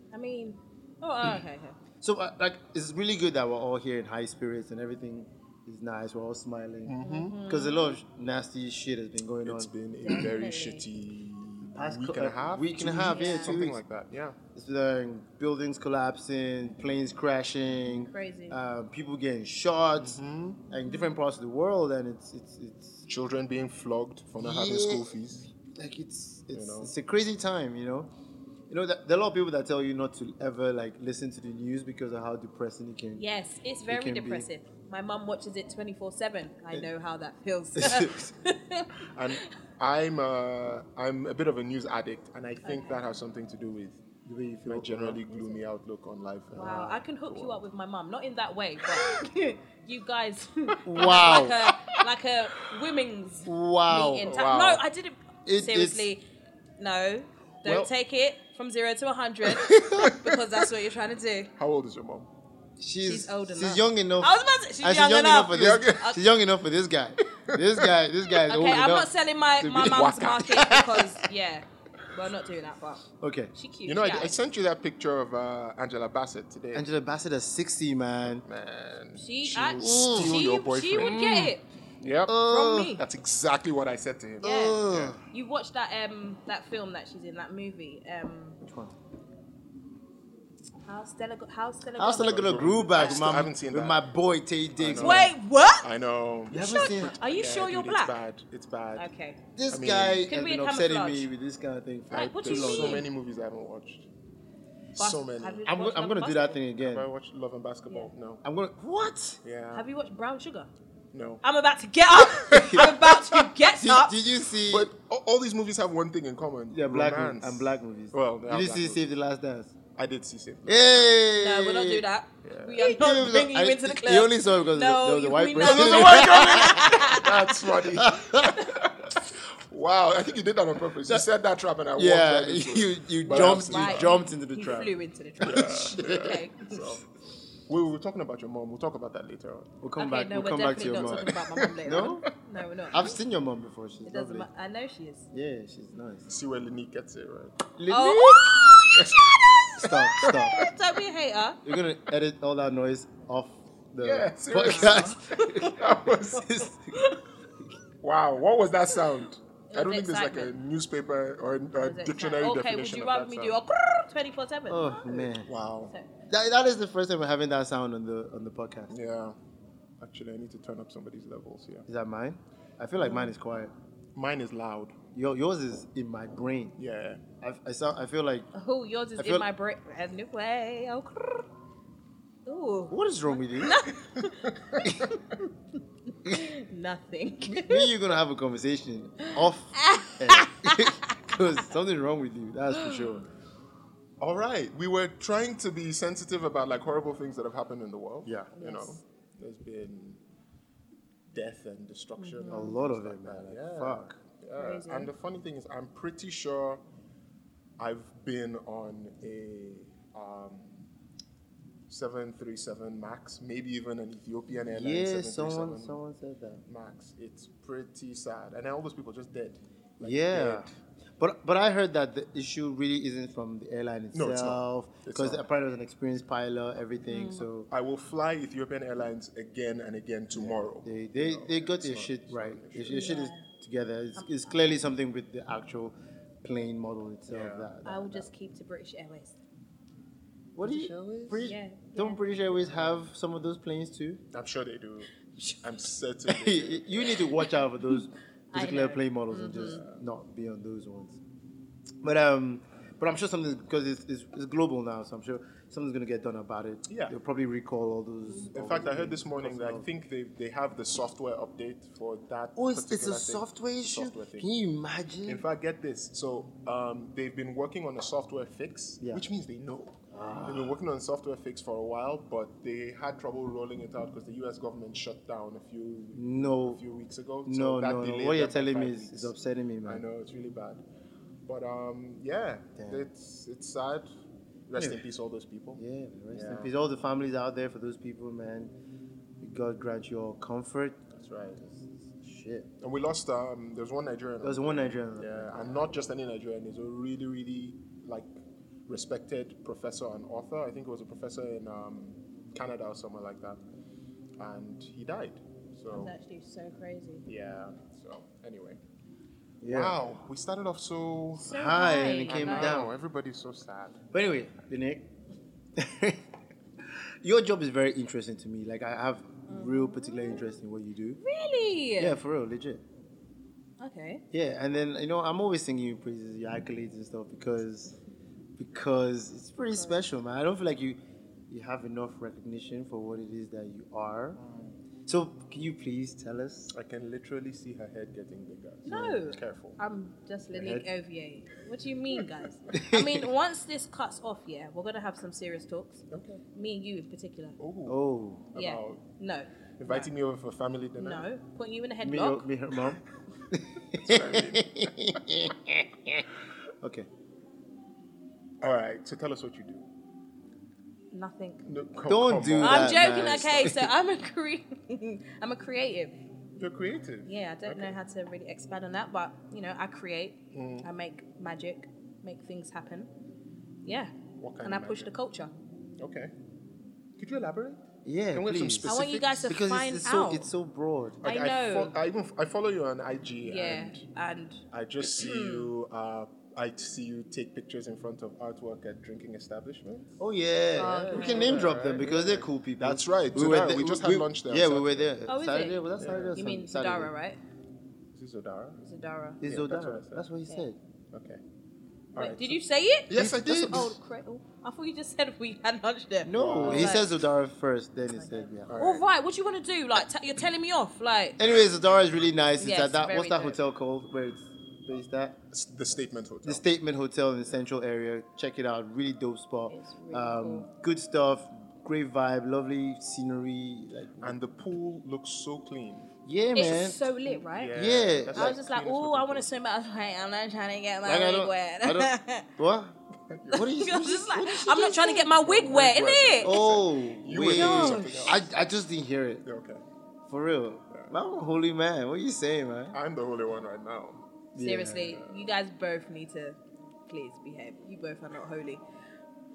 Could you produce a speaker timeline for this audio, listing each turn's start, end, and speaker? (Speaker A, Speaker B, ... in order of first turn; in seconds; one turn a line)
Speaker A: 0.1-1.8
Speaker B: 2.0-10.2
Speaker C: 6.8-7.4
Speaker A: 7.0-8.0
Speaker C: 9.4-14.4
Speaker A: 10.0-10.8
Speaker B: 11.8-13.8
Speaker A: 13.1-13.5
Speaker B: 14.5-20.2
Speaker A: 17.9-18.6
Speaker C: 20.0-20.6
Speaker B: 20.7-23.0
Speaker A: 20.9-21.1
Speaker C: 23.1-25.5
Speaker B: 24.4-28.1
Speaker C: 26.5-26.9
Speaker B: 28.7-33.2
Speaker A: 33.2-39.5
Speaker B: 33.9-34.5
Speaker B: 37.8-38.3
Speaker C: 39.1-44.0
Speaker A: 42.6-43.0
Speaker B: 44.2-45.3
Speaker C: 44.6-47.6
Speaker B: 46.5-47.0
Speaker A: 46.5-56.2
Speaker C: 48.9-49.2
Speaker B: 50.8-51.6
Speaker C: 51.0-52.0
Speaker B: 53.5-54.3
Speaker C: 54.2-54.8
Speaker B: 55.5-56.1
Speaker A: 56.8-61.5
Speaker B: 59.6-60.1
Speaker C: 60.0-60.4
Speaker C: 61.6-62.3
Speaker B: 62.8-70.4
Speaker A: 63.0-66.2
Speaker C: 65.5-66.1
Speaker C: 67.5-67.9
Speaker A: 68.5-74.3
Speaker C: 69.8-71.1
Speaker B: 73.2-73.5
Speaker C: 73.8-76.9
Speaker B: 76.7-78.4
Speaker C: 78.4-82.4
Speaker A: 79.2-81.6
Speaker B: 79.8-80.4
Speaker B: 81.0-81.5
Speaker B: 82.2-83.0
Speaker A: 82.4-83.0
Speaker C: 83.0-85.2
Speaker A: 84.4-84.8
Speaker B: 84.4-85.2
Speaker A: 85.3-88.6
Speaker B: 88.6-88.9
Speaker A: 90.8-93.4
Speaker B: 92.0-95.3
Speaker C: 92.1-94.0
Speaker C: 94.8-99.1
Speaker A: 95.0-95.9
Speaker B: 96.5-97.2
Speaker A: 96.5-98.1
Speaker A: 99.0-99.4
Speaker B: 99.5-103.1
Speaker C: 99.7-100.2
Speaker A: 100.2-101.3
Speaker A: 102.1-103.1
Speaker C: 102.1-104.1
Speaker C: 105.0-105.7
Speaker A: 105.0-106.6
Speaker B: 105.7-107.1
Speaker C: 106.8-108.4
Speaker B: 108.4-109.4
Speaker C: 109.4-109.9
Speaker A: 109.7-110.7
Speaker C: 111.1-111.4
Speaker A: 111.4-114.2
Speaker C: 112.2-113.1
Speaker B: 112.5-112.9
Speaker B: 113.7-114.9
Speaker C: 114.6-119.0
Speaker B: 116.7-119.8
Speaker C: 120.0-121.1
Speaker B: 120.6-122.0
Speaker A: 121.3-127.5
Speaker C: 122.4-122.8
Speaker B: 122.8-127.3
Speaker C: 125.5-134.2
Speaker B: 127.9-128.6
Speaker B: 131.9-136.4
Speaker A: 133.2-136.9
Speaker C: 135.4-137.0
Speaker C: 137.7-139.7
Speaker B: 139.8-142.2
Speaker A: 140.0-143.1
Speaker C: 140.6-142.3
Speaker B: 142.9-144.5
Speaker A: 144.1-145.2
Speaker B: 145.3-146.3
Speaker C: 146.3-147.6
Speaker B: 147.8-149.0
Speaker A: 147.9-151.6
Speaker B: 149.8-150.6
Speaker C: 149.8-150.7
Speaker B: 151.6-157.0
Speaker C: 154.0-156.7
Speaker A: 154.7-155.7
Speaker C: 158.0-163.6
Speaker A: 159.7-160.6
Speaker A: 161.8-165.3
Speaker B: 164.7-165.5
Speaker C: 165.4-165.9
Speaker B: 166.3-168.9
Speaker C: 168.9-169.4
Speaker C: 170.0-171.9
Speaker B: 171.9-173.7
Speaker C: 174.2-175.0
Speaker B: 175.1-176.8
Speaker C: 176.8-177.2
Speaker B: 177.4-178.5
Speaker A: 178.5-181.4
Speaker B: 179.2-179.5
Speaker A: 182.4-184.4
Speaker B: 182.9-183.9
Speaker C: 184.4-184.9
Speaker B: 184.8-185.2
Speaker A: 186.2-187.9
Speaker B: 187.5-193.3
Speaker A: 189.2-191.1
Speaker A: 192.8-193.1
Speaker C: 194.2-200.2
Speaker B: 198.2-198.5
Speaker A: 198.6-199.0
Speaker C: 201.3-206.8
Speaker A: 202.2-202.8
Speaker B: 202.5-204.2
Speaker A: 204.6-205.1
Speaker C: 207.8-210.9
Speaker C: 211.9-216.0
Speaker B: 214.7-216.6
Speaker C: 216.7-220.8
Speaker B: 220.0-220.7
Speaker B: 221.2-227.7
Speaker C: 224.1-225.4
Speaker A: 227.1-227.4
Speaker C: 227.7-233.1
Speaker B: 230.3-238.3
Speaker A: 232.9-233.5
Speaker C: 237.3-237.7
Speaker A: 237.8-239.4
Speaker B: 240.6-244.2
Speaker C: 240.6-241.4
Speaker A: 241.4-242.2
Speaker C: 244.3-247.3
Speaker B: 246.3-251.2
Speaker A: 248.5-249.8
Speaker C: 249.6-250.0
Speaker B: 252.0-259.9
Speaker C: 256.9-257.1
Speaker C: 258.5-264.5
Speaker B: 262.6-265.4
Speaker C: 265.2-279.3
Speaker B: 270.1-270.8
Speaker B: 276.1-276.8
Speaker B: 277.4-280.1
Speaker C: 279.8-280.8
Speaker C: 281.4-284.1
Speaker B: 282.8-283.0
Speaker C: 284.7-285.8
Speaker B: 285.8-288.7
Speaker C: 286.3-286.7
Speaker B: 289.4-291.0
Speaker C: 291.1-291.6
Speaker B: 291.6-292.7
Speaker C: 292.8-298.3
Speaker B: 294.4-295.8
Speaker C: 298.9-303.6
Speaker C: 304.4-306.1
Speaker A: 305.9-307.3
Speaker C: 307.3-308.8
Speaker B: 309.6-310.1
Speaker C: 309.6-314.0
Speaker A: 311.4-312.8
Speaker B: 311.4-312.9
Speaker B: 314.1-315.1
Speaker B: 315.8-316.2
Speaker B: 316.9-321.2
Speaker A: 319.5-319.9
Speaker A: 321.2-322.2
Speaker B: 322.0-322.8
Speaker A: 323.8-324.2
Speaker B: 324.3-328.0
Speaker B: 328.6-331.0
Speaker A: 329.7-330.0
Speaker B: 331.5-334.4
Speaker C: 334.4-334.8
Speaker B: 335.1-336.7
Speaker C: 336.7-339.8
Speaker A: 338.8-346.0
Speaker B: 338.9-339.2
Speaker B: 340.5-340.9
Speaker B: 342.7-343.3
Speaker C: 346.1-346.4
Speaker A: 346.6-347.6
Speaker C: 347.6-348.0
Speaker B: 347.9-348.5
Speaker C: 348.5-349.0
Speaker A: 348.6-350.1
Speaker C: 349.8-351.3
Speaker A: 351.0-352.4
Speaker B: 352.0-356.3
Speaker C: 353.9-355.2
Speaker B: 356.8-357.1
Speaker C: 358.6-359.9
Speaker A: 361.1-361.6
Speaker C: 361.6-363.8
Speaker B: 362.1-363.9
Speaker A: 362.6-366.2
Speaker C: 366.6-367.9
Speaker A: 367.2-373.1
Speaker C: 370.5-370.9
Speaker A: 373.8-375.5
Speaker C: 374.4-375.1
Speaker C: 376.0-376.3
Speaker C: 377.2-379.5
Speaker B: 378.1-381.2
Speaker A: 378.8-380.5
Speaker C: 381.2-384.0
Speaker A: 381.2-381.9
Speaker A: 383.4-385.7
Speaker C: 384.7-390.2
Speaker B: 390.2-397.1
Speaker A: 390.8-391.7
Speaker C: 390.8-395.1
Speaker A: 395.3-395.8
Speaker C: 396.0-396.4
Speaker A: 396.4-397.4
Speaker C: 398.1-398.8
Speaker A: 398.8-399.4
Speaker B: 399.4-400.8
Speaker C: 399.4-400.2
Speaker C: 401.1-401.4
Speaker C: 402.1-404.0
Speaker A: 402.2-407.1
Speaker B: 403.1-403.9
Speaker B: 406.2-408.8
Speaker C: 406.3-407.1
Speaker A: 408.1-411.4
Speaker C: 408.7-409.1
Speaker B: 411.4-415.4
Speaker A: 412.6-413.6
Speaker C: 415.5-416.6
Speaker B: 416.4-424.4
Speaker A: 419.7-420.7
Speaker C: 424.2-426.1
Speaker B: 426.2-427.0
Speaker A: 426.6-432.5
Speaker C: 427.4-429.5
Speaker B: 427.7-428.6
Speaker B: 431.1-432.9
Speaker C: 433.3-433.6
Speaker B: 433.5-435.4
Speaker A: 433.5-436.6
Speaker C: 435.3-438.6
Speaker B: 436.4-439.4
Speaker A: 437.4-438.4
Speaker C: 439.4-439.8
Speaker B: 440.3-443.0
Speaker C: 442.9-444.2
Speaker B: 444.5-445.2
Speaker A: 444.6-448.8
Speaker C: 445.1-445.5